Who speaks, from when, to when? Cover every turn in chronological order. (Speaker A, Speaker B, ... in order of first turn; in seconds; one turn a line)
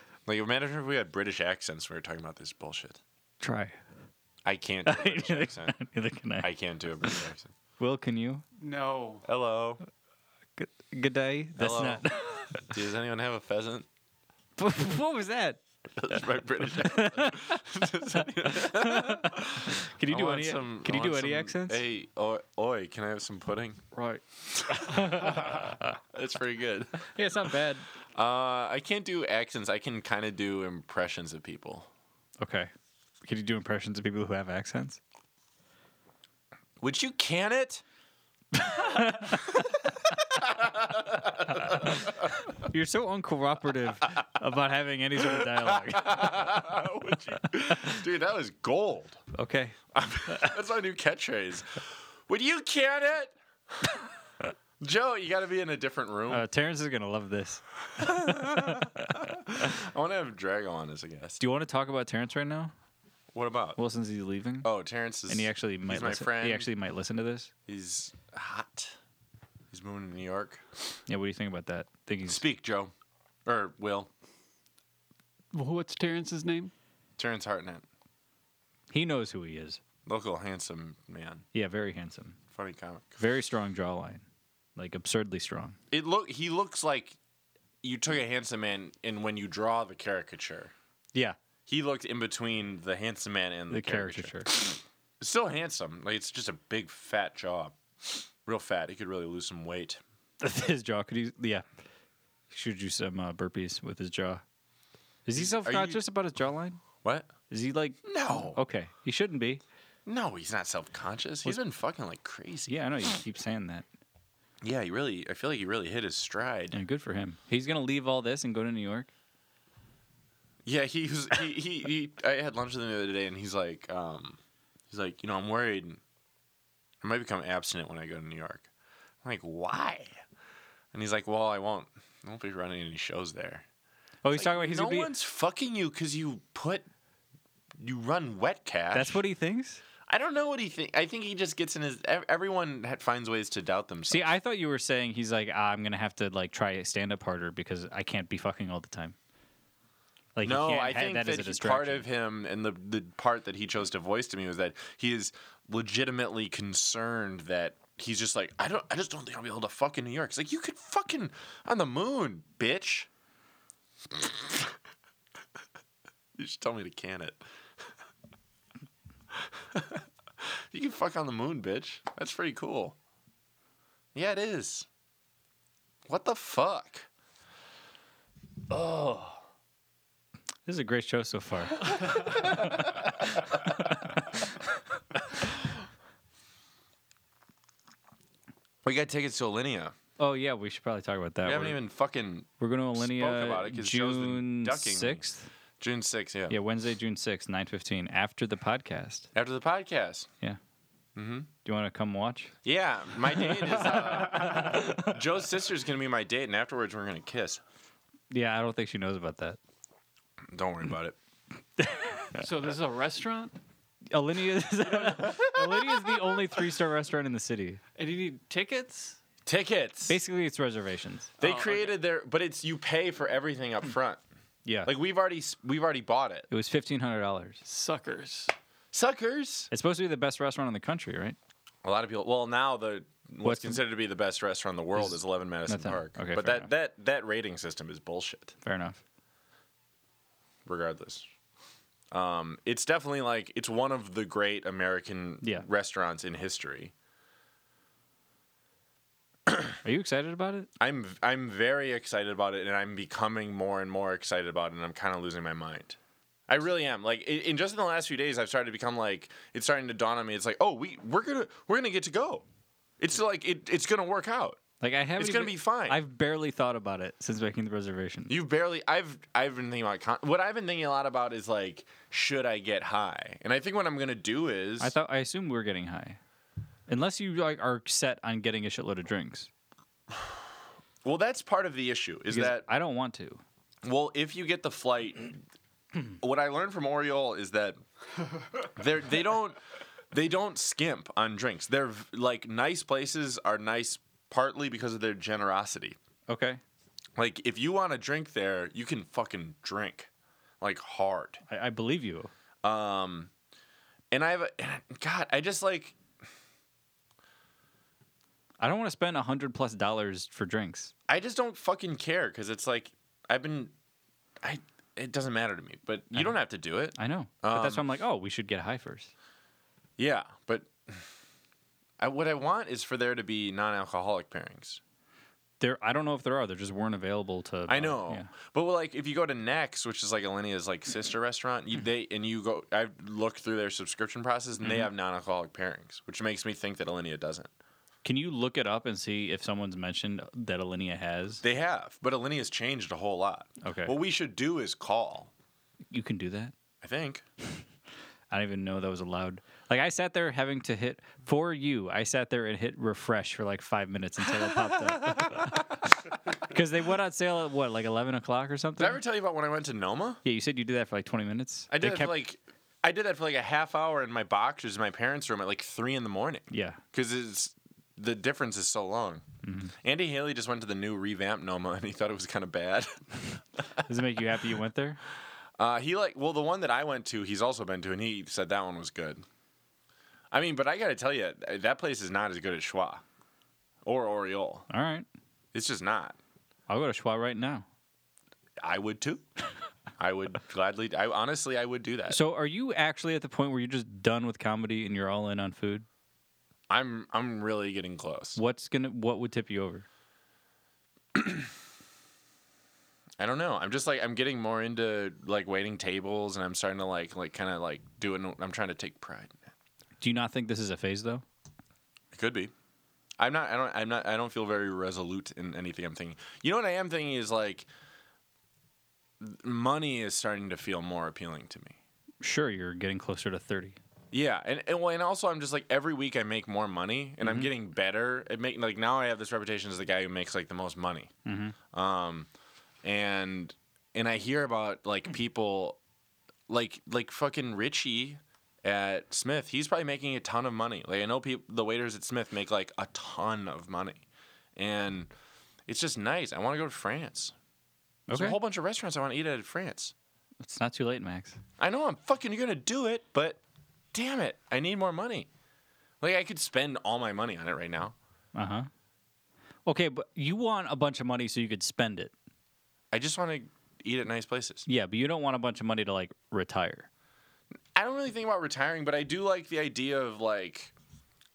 Speaker A: 0.2-3.0
Speaker B: 3.4-3.8
Speaker A: 4.4-5.8
Speaker B: 4.8-6.5
Speaker A: 6.4-7.5
Speaker B: 7.8-8.4
Speaker C: 8.6-9.2
Speaker A: 9.2-9.8
Speaker B: 10.6-12.7
Speaker A: 11.6-13.9
Speaker B: 14.6-15.6
Speaker A: 16.0-23.8
Speaker B: 16.1-17.6
Speaker B: 18.1-21.8
Speaker C: 23.9-24.2
Speaker A: 24.6-27.1
Speaker B: 24.9-25.8
Speaker B: 27.1-27.9
Speaker A: 28.1-31.9
Speaker B: 32.4-32.7
Speaker B: 33.2-35.0
Speaker A: 36.8-37.8
Speaker B: 38.5-39.6
Speaker A: 39.5-42.3
Speaker B: 41.6-46.7
Speaker A: 45.6-49.2
Speaker B: 49.3-50.6
Speaker A: 49.9-53.9
Speaker A: 54.8-56.4
Speaker B: 56.3-59.1
Speaker A: 58.0-61.4
Speaker B: 61.4-62.7
Speaker A: 63.3-63.8
Speaker B: 63.8-64.7
Speaker A: 64.6-66.7
Speaker B: 65.3-67.5
Speaker A: 67.7-69.0
Speaker A: 69.7-70.8
Speaker B: 71.1-72.4
Speaker A: 72.3-72.9
Speaker A: 73.4-74.1
Speaker C: 75.5-76.7
Speaker A: 77.2-77.8
Speaker B: 78.9-79.8
Speaker A: 80.0-81.4
Speaker B: 81.5-82.4
Speaker A: 82.5-83.2
Speaker B: 83.2-84.2
Speaker B: 84.8-85.8
Speaker A: 85.9-87.2
Speaker A: 87.8-90.7
Speaker A: 91.7-100.0
Speaker B: 93.7-94.5
Speaker B: 100.4-101.7
Speaker B: 102.5-104.4
Speaker B: 105.2-106.8
Speaker A: 105.3-106.0
Speaker A: 107.0-107.3
Speaker B: 107.5-109.6
Speaker A: 108.0-108.6
Speaker A: 110.0-112.7
Speaker B: 112.7-113.9
Speaker A: 114.6-116.8
Speaker B: 116.7-119.1
Speaker A: 120.7-124.4
Speaker A: 124.9-126.0
Speaker A: 127.0-128.7
Speaker A: 129.2-130.2
Speaker A: 130.9-133.7
Speaker B: 134.2-135.1
Speaker A: 134.3-136.8
Speaker A: 137.8-139.2
Speaker B: 138.9-139.8
Speaker A: 140.1-144.3
Speaker B: 144.1-149.2
Speaker B: 150.3-152.1
Speaker A: 150.4-163.1
Speaker A: 164.1-164.7
Speaker A: 166.4-167.4
Speaker A: 169.4-173.0
Speaker A: 174.1-174.9
Speaker A: 176.1-177.1
Speaker A: 178.7-179.4
Speaker B: 180.7-184.4
Speaker A: 182.4-182.8
Speaker A: 188.8-189.9
Speaker B: 190.2-191.8
Speaker A: 191.4-195.2
Speaker B: 192.6-195.5
Speaker A: 195.8-196.6
Speaker B: 196.5-199.3
Speaker A: 199.3-200.3
Speaker A: 201.2-201.5
Speaker B: 201.6-202.5
Speaker A: 202.6-207.6
Speaker B: 203.3-205.1
Speaker B: 208.3-209.6
Speaker A: 210.5-211.2
Speaker B: 211.8-212.4
Speaker C: 212.3-213.5
Speaker B: 214.1-217.8
Speaker C: 217.9-219.2
Speaker A: 219.4-220.2
Speaker B: 220.1-221.3
Speaker C: 221.4-222.0
Speaker A: 221.4-224.2
Speaker B: 224.6-224.9
Speaker A: 224.8-226.5
Speaker B: 226.5-227.6
Speaker C: 227.6-228.5
Speaker A: 228.9-229.7
Speaker B: 229.7-231.4
Speaker A: 231.8-238.5
Speaker B: 233.4-233.8
Speaker B: 234.9-236.7
Speaker B: 238.6-239.0
Speaker A: 240.7-241.3
Speaker A: 242.1-246.9
Speaker A: 249.5-249.7
Speaker B: 249.8-250.7
Speaker A: 250.8-256.0
Speaker A: 256.5-262.4
Speaker A: 263.0-264.6
Speaker B: 264.8-268.3
Speaker A: 265.2-266.0
Speaker A: 268.3-274.9
Speaker B: 274.8-276.2
Speaker B: 276.9-279.5
Speaker A: 281.0-282.6
Speaker B: 282.3-283.4
Speaker A: 283.8-285.4
Speaker A: 286.1-287.8
Speaker A: 288.6-289.6
Speaker A: 290.1-296.0
Speaker B: 296.3-296.6
Speaker A: 297.2-300.1
Speaker A: 300.6-301.4
Speaker B: 301.5-302.3
Speaker A: 302.6-303.3
Speaker A: 304.1-306.0
Speaker B: 308.6-310.9
Speaker A: 311.1-313.7
Speaker A: 314.4-317.8
Speaker B: 316.9-319.1
Speaker A: 320.0-321.0
Speaker A: 322.0-324.8
Speaker B: 325.6-328.3
Speaker A: 327.7-337.5
Speaker B: 334.6-334.9
Speaker B: 338.0-341.4
Speaker A: 341.4-345.3
Speaker B: 343.6-343.9
Speaker B: 345.9-346.5
Speaker A: 346.8-347.2
Speaker B: 348.3-359.0
Speaker A: 355.1-355.4
Speaker A: 358.8-360.2
Speaker B: 360.2-362.1
Speaker A: 361.7-369.2
Speaker B: 366.5-366.8
Speaker B: 369.4-369.7
Speaker A: 369.8-373.2
Speaker B: 373.9-375.0
Speaker A: 375.6-379.2
Speaker A: 380.3-383.0
Speaker A: 383.8-384.7
Speaker B: 384.7-385.1
Speaker A: 385.5-386.2
Speaker B: 386.7-387.6
Speaker A: 388.6-389.2
Speaker A: 390.0-392.2
Speaker B: 392.1-395.9
Speaker A: 396.7-398.4
Speaker B: 398.4-399.9
Speaker A: 401.1-401.5
Speaker A: 403.2-409.4
Speaker B: 410.0-411.2
Speaker A: 412.1-412.5
Speaker A: 413.2-417.7
Speaker A: 419.2-421.8
Speaker B: 422.2-423.8
Speaker A: 424.1-431.1
Speaker B: 427.2-427.5
Speaker B: 431.2-431.5
Speaker A: 431.7-432.3
Speaker A: 432.8-435.8
Speaker A: 436.5-444.0
Speaker A: 444.6-445.1
Speaker A: 445.7-447.3
Speaker B: 448.1-448.4
Speaker A: 448.1-449.9
Speaker B: 450.4-451.4
Speaker A: 451.6-453.4
Speaker A: 453.9-455.3
Speaker A: 456.0-457.9
Speaker B: 458.3-458.7
Speaker B: 459.6-462.1
Speaker A: 462.9-464.6
Speaker B: 464.7-466.9
Speaker A: 467.7-470.7